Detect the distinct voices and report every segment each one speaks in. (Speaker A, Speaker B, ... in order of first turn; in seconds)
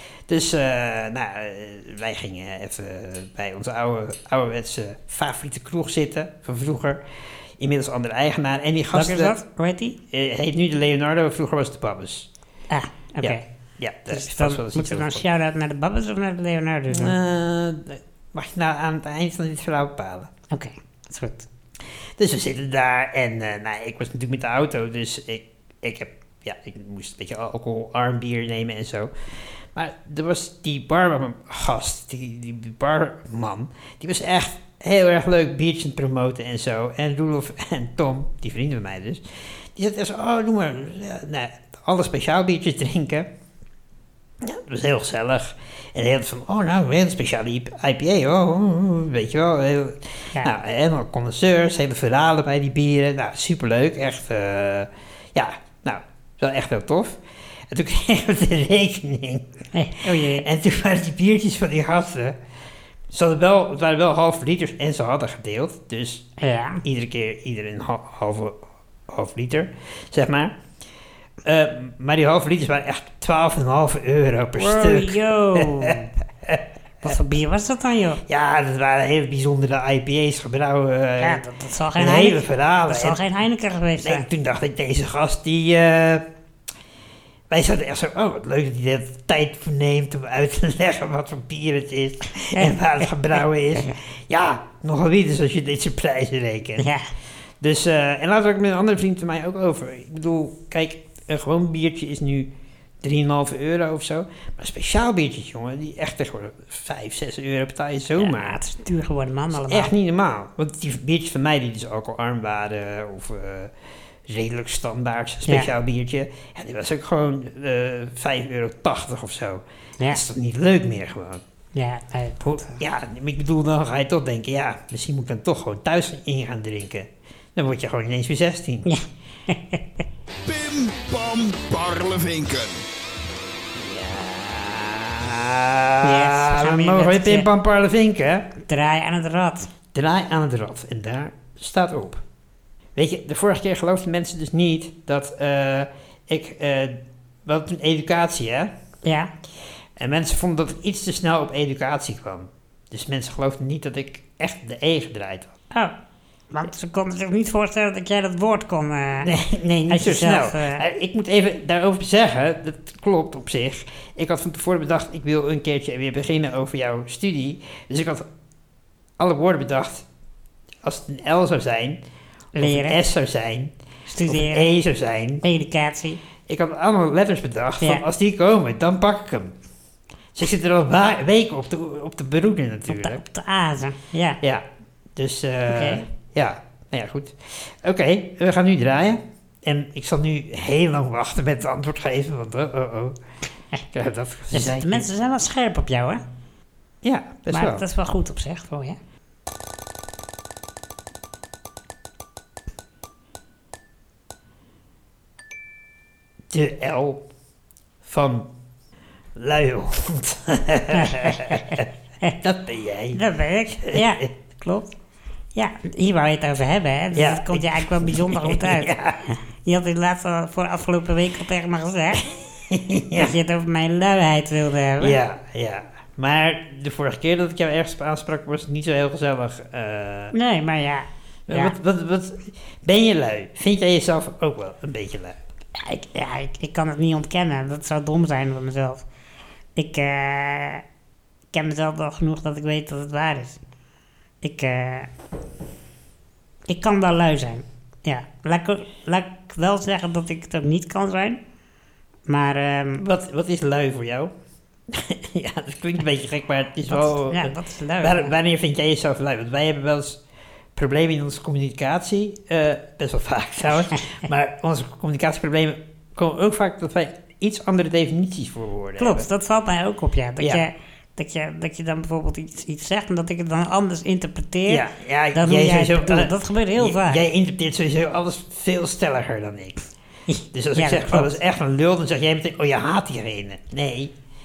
Speaker A: 0.3-7.0, 7.6-9.4, 10.1-12.3, 13.2-15.2, 16.9-20.3, 22.2-39.2, 39.8-43.3, 44.4-59.5, 60.2-62.4, 63.1-66.3, 66.8-70.6, 71.5-77.2, 78.3-81.4, 82.0-83.2, 84.0-86.3, 87.5-96.9, 97.6-102.5, 103.0-108.6, 109.5-113.7, 114.3-121.4, 122.4-128.9, 133.8-138.5, 139.9-142.2, 142.9-148.7, 150.0-155.5, 159.2-168.2, 169.2-170.1, 170.8-172.0, 172.6-173.7, 174.3-175.4, 176.5-179.6, 180.3-183.2, 184.4-193.2, 193.9-195.1, 197.0-197.8, 206.5-207.3, 208.0-208.5, 209.4-213.2, 213.8-214.3, 217.2-219.2, 222.3-223.3, 225.0-230.3, 231.5-235.4, 253.0-254.3, 254.9-260.2, 260.8-269.3, 274.7-279.9, 280.5-284.1
Speaker B: 8.9-10.0, 12.7-13.4, 14.1-17.1, 20.5-21.5, 59.7-60.5, 66.4-66.8, 74.6-76.1, 77.0-78.2, 81.2-84.3, 92.5-93.1, 96.8-97.1, 108.2-109.9, 121.7-122.8, 128.9-129.8, 136.0-137.5, 138.6-139.7, 149.0-149.3, 156.5-159.3, 159.9-160.8, 172.6-173.0, 174.1-174.7, 175.4-176.2, 182.9-184.4, 185.7-186.1, 194.5-196.2, 197.5-199.0, 210.9-212.3, 213.1-214.9, 215.6-222.2, 223.1-225.2, 230.3-231.7, 235.8-239.1, 239.8-240.8, 241.5-243.6, 244.4-245.1, 246.7-251.4, 252.3-253.0, 256.9-258.3, 269.0-277.2, 280.3-281.3
Speaker C: 130.4-132.8